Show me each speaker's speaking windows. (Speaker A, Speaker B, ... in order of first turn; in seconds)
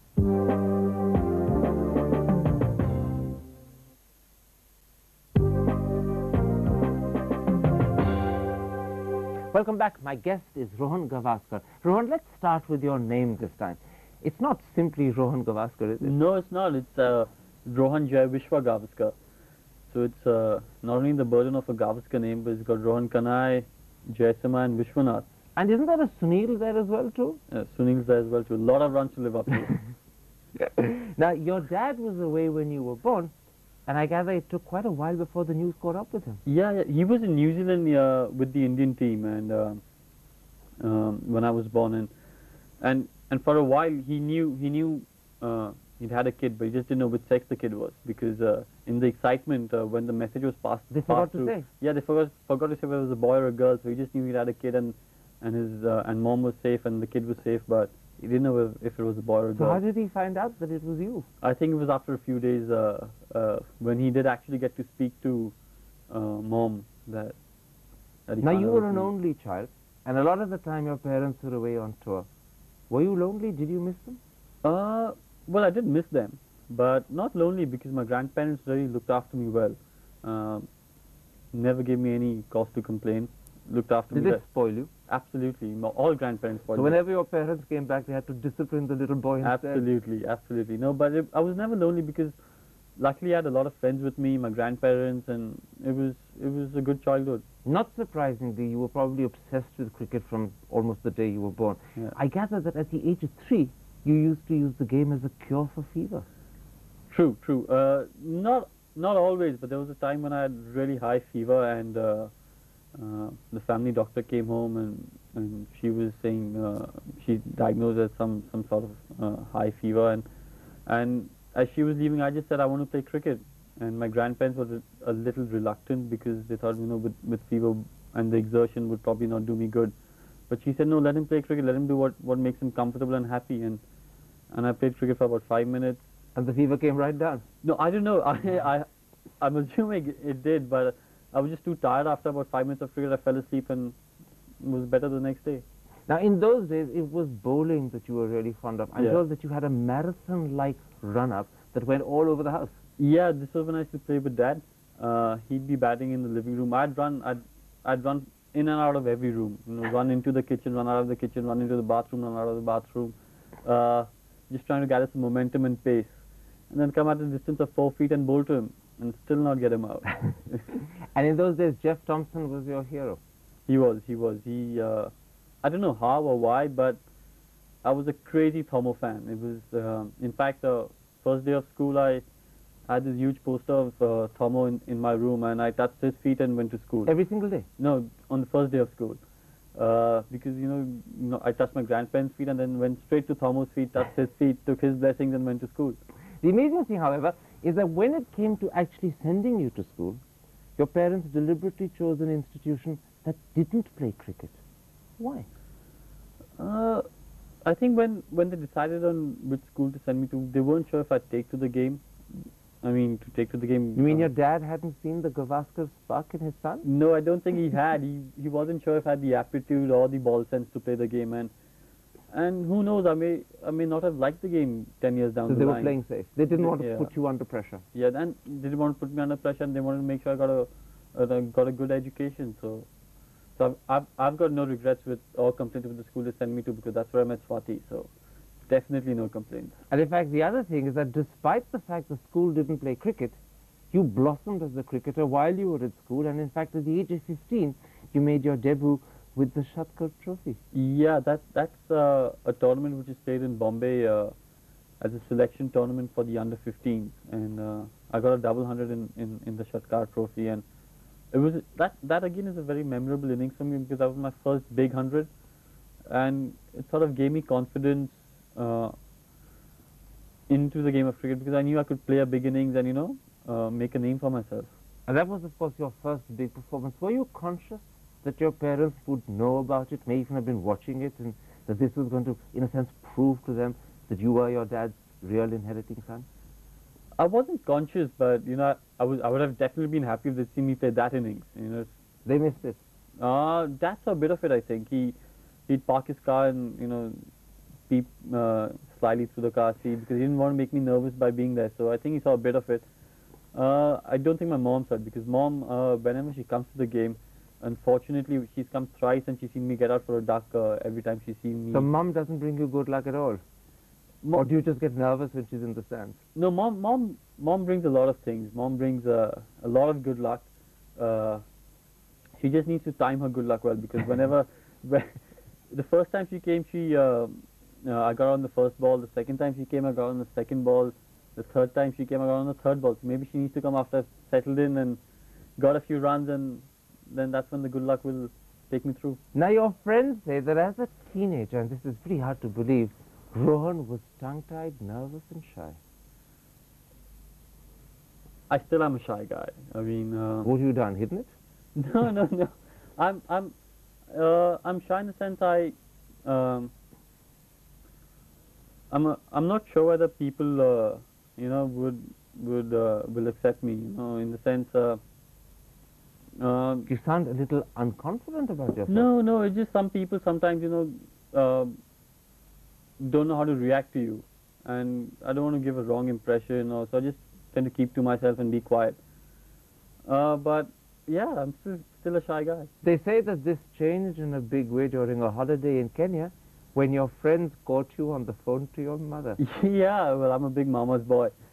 Speaker A: 9.5-16.1, 25.6-27.4, 30.6-33.3, 33.9-36.4, 50.9-51.7, 59.6-61.3, 68.4-72.3, 72.9-74.2, 84.1-84.9, 86.8-89.8, 97.7-106.3, 136.3-137.4, 146.1-152.8, 171.1-173.2, 187.1-187.7, 196.4-200.2, 200.8-204.6, 205.2-205.5, 214.0-216.8, 225.5-227.8, 239.9-243.4, 243.9-250.6, 275.1-286.3, 292.2-292.8, 311.7-313.4, 314.3-316.2, 339.3-345.8, 350.4-351.3, 366.9-369.1, 382.8-389.4
Speaker B: 16.0-19.1, 19.9-25.3, 27.5-29.8, 36.5-39.8, 40.8-42.1, 42.8-59.8, 61.4-65.5, 66.1-67.4, 68.3-69.1, 74.6-80.7, 81.5-84.4, 85.1-87.0, 89.4-92.4, 93.0-97.5, 107.1-112.3, 113.0-120.2, 120.9-129.9, 130.5-133.8, 134.5-136.0, 137.6-138.9, 139.4-143.9, 144.6-145.6, 153.0-166.2, 166.7-170.6, 173.7-175.1, 175.6-177.0, 177.8-182.2, 182.9-187.1, 187.8-189.2, 189.8-196.0, 206.6-207.1, 207.7-212.0, 212.8-214.3, 216.8-221.5, 222.3-225.9, 226.6-227.1, 227.9-232.9, 233.6-238.1, 238.7-239.8, 250.7-254.3, 255.0-260.6, 261.3-265.3, 266.1-268.9, 270.5-274.7, 287.2-291.9, 293.2-295.1, 295.7-297.2, 297.9-302.8, 303.5-311.9, 314.2-314.5, 316.4-321.4, 322.4-325.2, 325.7-335.0, 335.6-339.2, 348.5-350.5, 351.8-353.5, 354.1-355.7, 356.2-356.7, 358.9-365.0, 366.4-366.9, 368.9-371.7, 373.0-379.0, 380.1-382.7, 389.4-391.3